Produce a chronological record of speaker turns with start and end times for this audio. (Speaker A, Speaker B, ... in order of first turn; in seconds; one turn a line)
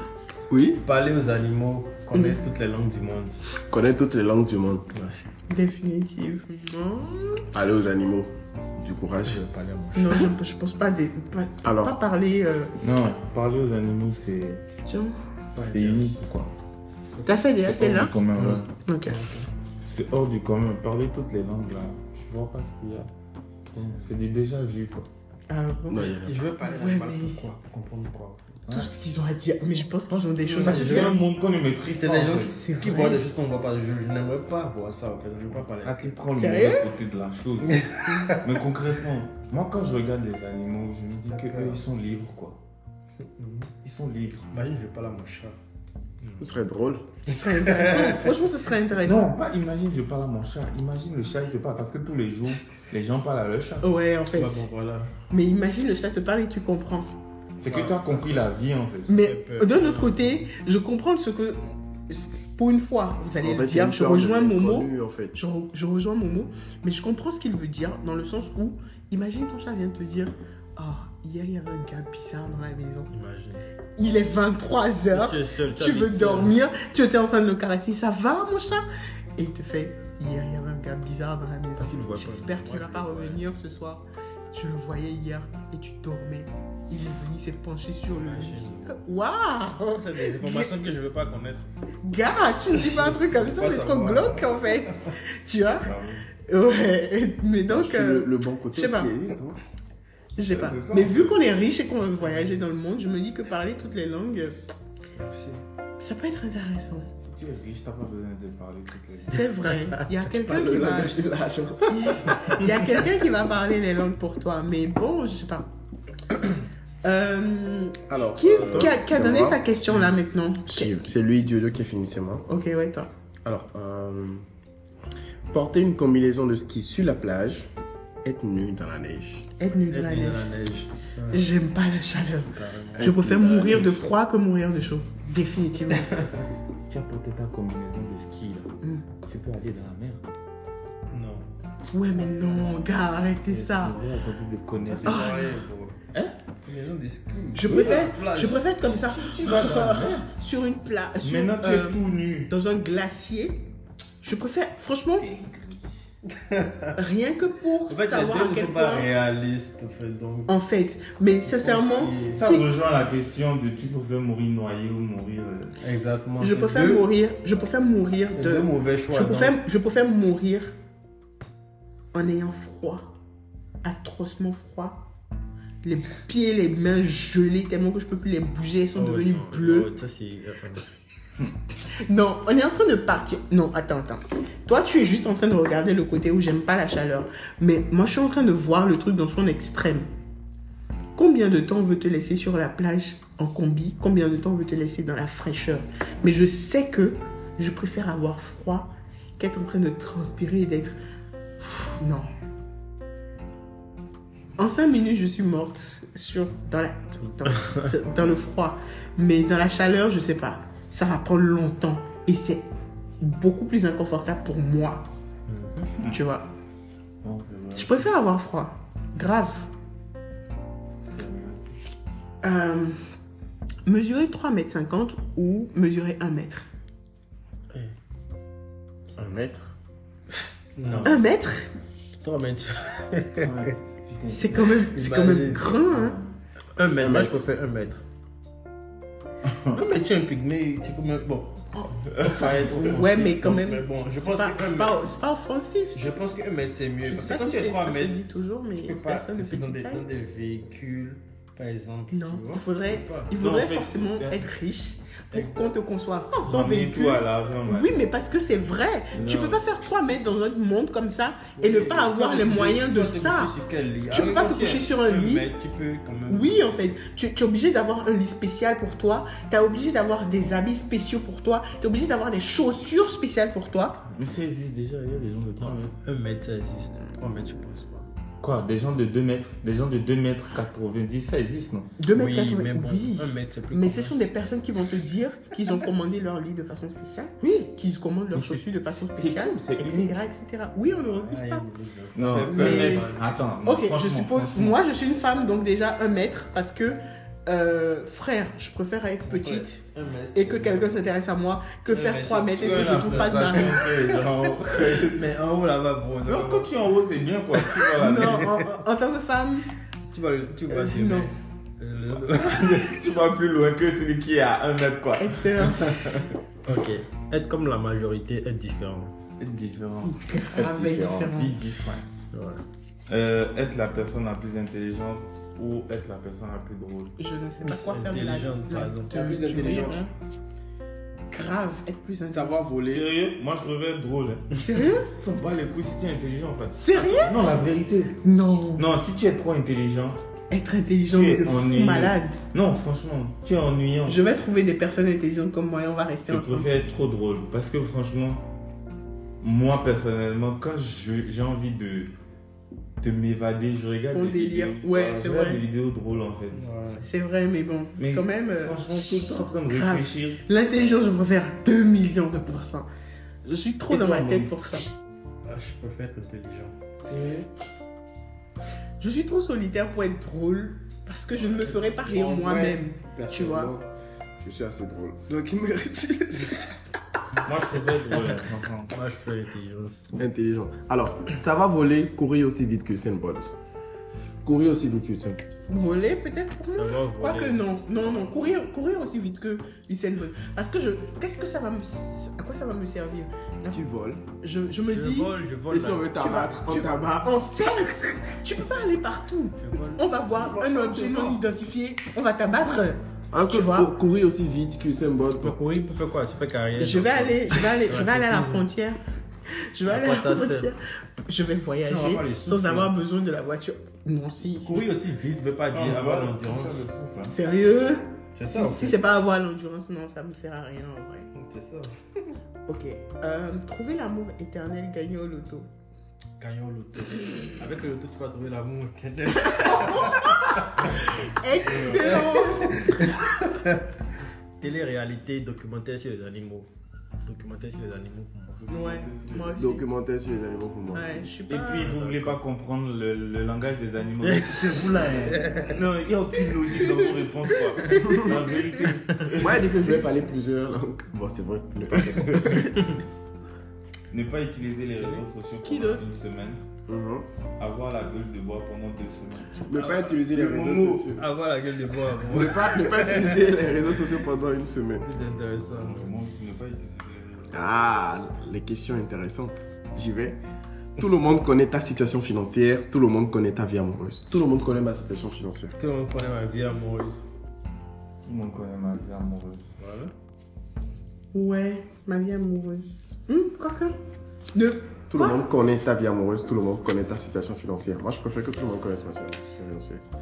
Speaker A: 0.5-0.8
Speaker B: 0.8-3.4
Speaker C: 2.1-2.4
Speaker A: 3.7-4.9
Speaker B: 4.9-5.3
Speaker C: 5.5-7.5
Speaker A: 7.5-9.4
Speaker B: 9.2-10.3
Speaker C: 9.9-12.8
Speaker A: 11.6-12.0
Speaker D: 12.8-14.6
Speaker C: 14.8-15.2
Speaker B: 15.6-16.2
Speaker D: 15.6-16.5
Speaker C: 17.2-18.1
Speaker D: 17.5-18.7
Speaker B: 18.4-19.5
Speaker C: 18.9-19.2
Speaker D: 19.8-23.1
Speaker D: 23.7-25.1
Speaker B: 23.8-24.1
Speaker C: 25.5-26.1
Speaker A: 25.9-26.4
Speaker B: 26.2-28.5
Speaker C: 26.6-27.4
Speaker D: 28.7-28.9
Speaker C: 28.7-31.2
Speaker B: 30.4-31.2
Speaker D: 30.6-32.6
Speaker B: 31.9-36.2
Speaker C: 32.5-33.2
Speaker D: 35.8-42.6
Speaker C: 36.3-36.9
Speaker B: 37.7-38.4
Speaker B: 41.3-41.8
Speaker B: 43.2-43.7
Speaker D: 43.8-44.5
Speaker B: 44.5-45.6
Speaker B: 46.2-46.6
Speaker A: 46.4-47.1
Speaker C: 47.3-49.3
Speaker B: 47.3-48.4
Speaker D: 49.0-53.9
Speaker C: 53.8-54.7
Speaker B: 54.3-55.1
Speaker C: 55.3-57.1
Speaker D: 57.6-59.2
Speaker B: 57.6-58.5
Speaker C: 59.1-73.1
Speaker B: 59.2-60.4
Speaker A: 63.4-65.5
Speaker B: 73.1-73.7
Speaker C: 74.0-78.8
Speaker B: 75.1-76.6
Speaker C: 79.4-90.8
Speaker B: 81.8-83.5
Speaker B: 88.1-89.0
Speaker B: 89.9-91.7
Speaker C: 92.0-95.9
Speaker B: 92.7-95.1
Speaker D: 95.8-96.3
Speaker C: 96.4-99.1
Speaker A: 97.7-99.6
Speaker C: 100.4-104.6
Speaker D: 100.5-101.4
Speaker B: 105.2-105.6
Speaker C: 106.0-107.1
Speaker D: 107.2-109.5
Speaker C: 109.3-111.2
Speaker B: 109.8-110.0
Speaker A: 110.4-112.4
Speaker C: 111.9-115.7
Speaker C: 117.0-120.9
Speaker A: 118.1-119.6
Speaker B: 118.5-119.0
Speaker A: 120.7-122.5
Speaker C: 122.5-123.1
Speaker A: 123.4-124.5
Speaker A: 125.5-127.7
Speaker A: 128.2-129.5
Speaker C: 129.6-130.5
Speaker B: 129.9-131.5
Speaker C: 131.3-136.1
Speaker B: 132.5-133.1
Speaker A: 132.9-134.1
Speaker B: 136.0-136.3
Speaker D: 136.8-140.2
Speaker B: 141.1-141.5
Speaker C: 141.9-144.0
Speaker B: 142.3-142.8
Speaker D: 143.5-145.5
Speaker B: 144.8-146.0
Speaker C: 145.1-145.4
Speaker B: 146.6-148.7
Speaker C: 147.5-153.7
Speaker D: 147.7-148.1
Speaker D: 148.8-150.3
Speaker D: 151.2-152.5
Speaker C: 154.2-155.3
Speaker D: 155.2-155.8
Speaker B: 156.3-156.9
Speaker C: 157.0-159.1
Speaker B: 157.9-160.5
Speaker C: 160.5-162.7
Speaker B: 161.4-162.4
Speaker D: 162.3-165.7
Speaker B: 165.8-167.1
Speaker C: 166.4-170.8
Speaker B: 168.3-169.6
Speaker C: 172.1-173.1
Speaker C: 173.8-175.1
Speaker C: 175.8-179.9
Speaker B: 179.0-180.9
Speaker C: 182.1-190.1
Speaker C: 191.2-201.0
Speaker C: 201.6-202.3
Speaker C: 204.6-212.7
Speaker C: 213.2-215.1
Speaker B: 215.5-215.8
Speaker D: 215.9-216.2
Speaker C: 216.1-216.5
Speaker D: 217.2-218.1
Speaker C: 217.8-219.7
Speaker D: 221.1-221.6
Speaker C: 222.4-223.0
Speaker C: 223.9-226.7
Speaker A: 229.2-229.7
Speaker B: 230.8-231.2
Speaker C: 231.1-231.7
Speaker B: 232.2-233.7
Speaker D: 233.4-234.9
Speaker C: 234.3-236.2
Speaker B: 234.9-235.8
Speaker D: 235.7-236.4
Speaker B: 236.8-238.0
Speaker A: 237.0-237.3
Speaker D: 239.5-239.8
Speaker B: 239.7-245.1
Speaker C: 241.8-246.2
Speaker D: 242.1-242.7
Speaker B: 245.9-248.2
Speaker C: 247.0-250.1
Speaker B: 248.8-253.3
Speaker C: 252.1-263.5
Speaker D: 253.3-254.5
Speaker B: 255.3-255.7
Speaker D: 256.5-257.9
Speaker D: 259.1-259.6
Speaker B: 261.6-266.8
Speaker C: 264.1-265.5
Speaker C: 266.3-274.0
Speaker D: 274.1-275.9
Speaker B: 275.6-278.1
Speaker D: 278.4-281.9
Speaker C: 282.0-291.6
Speaker B: 282.1-284.2
Speaker D: 288.3-290.2
Speaker B: 290.9-293.5
Speaker D: 292.2-294.8
Speaker C: 292.5-293.1
Speaker C: 293.6-303.9
Speaker B: 299.3-301.0
Speaker B: 301.9-306.7
Speaker D: 302.6-305.3
Speaker D: 306.2-308.6
Speaker B: 307.6-308.6
Speaker C: 308.0-309.7
Speaker B: 310.1-313.0
Speaker C: 310.7-311.3
Speaker D: 312.4-316.1
Speaker C: 315.2-315.8
Speaker B: 315.6-319.1
Speaker D: 319.4-322.1
Speaker C: 320.1-321.6
Speaker B: 322.3-322.6
Speaker D: 323.1-327.2
Speaker C: 327.2-330.1
Speaker B: 327.6-329.2
Speaker A: 329.1-330.1
Speaker C: 331.3-332.6
Speaker A: 332.3-333.1
Speaker D: 332.9-338.2
Speaker C: 334.6-335.1
Speaker C: 336.8-337.4
Speaker C: 338.2-338.9
Speaker D: 338.8-340.2
Speaker C: 340.5-342.4
Speaker D: 341.1-344.2
Speaker C: 344.1-346.7
Speaker D: 346.3-348.5
Speaker D: 349.4-352.1
Speaker D: 353.0-356.6
Speaker C: 354.1-355.6
Speaker B: 356.5-357.1
Speaker C: 357.0-358.8
Speaker D: 358.0-360.4
Speaker C: 359.4-362.9
Speaker C: 363.4-364.9
Speaker D: 363.9-364.5
Speaker B: 365.4-366.8
Speaker D: 367.0-367.5
Speaker C: 369.0-373.7
Speaker A: 372.1-373.9
Speaker A: 374.4-377.0
Speaker D: 377.4-379.0
Speaker B: 377.8-380.2
Speaker A: 380.2-383.6
Speaker A: 384.4-385.5
Speaker C: 385.7-393.9
Speaker B: 386.7-388.5
Speaker A: 393.7-394.2
Speaker C: 394.4-395.3
Speaker B: 394.9-397.0
Speaker A: 395.7-397.5
Speaker C: 396.2-403.9
Speaker B: 399.6-400.1
Speaker A: 400.3-401.4
Speaker A: 403.3-405.6
Speaker B: 405.4-408.7
Speaker C: 406.8-409.0
Speaker C: 409.7-414.9
Speaker B: 409.9-410.7
Speaker B: 411.9-412.9
Speaker B: 414.6-416.9
Speaker D: 415.7-417.4
Speaker C: 417.2-421.3
Speaker B: 418.4-419.0
Speaker B: 421.3-421.9
Speaker C: 422.7-425.7
Speaker B: 426.4-431.1
Speaker C: 429.6-433.1
Speaker B: 431.6-433.8
Speaker B: 434.6-436.7
Speaker B: 437.2-438.6
Speaker D: 438.6-439.6
Speaker C: 438.7-439.9
Speaker A: 439.6-441.3
Speaker C: 440.9-442.0
Speaker D: 441.5-450.1
Speaker B: 441.8-442.4
Speaker B: 444.2-445.8
Speaker B: 447.6-448.2
Speaker A: 449.4-453.0
Speaker B: 452.4-453.0
Speaker D: 454.1-456.6
Speaker B: 454.9-455.2
Speaker C: 455.6-456.1
Speaker A: 456.9-457.3
Speaker D: 457.6-461.2
Speaker A: 459.7-461.2
Speaker B: 459.7-460.1
Speaker B: 461.1-464.1
Speaker A: 462.3-465.1
Speaker B: 465.0-466.0
Speaker D: 465.7-467.6
Speaker A: 467.5-470.4
Speaker A: 471.0-475.8
Speaker B: 475.8-477.3
Speaker D: 478.2-479.7
Speaker B: 479.8-480.1
Speaker C: 481.3-483.9
Speaker C: 484.5-485.4
Speaker A: 485.1-490.0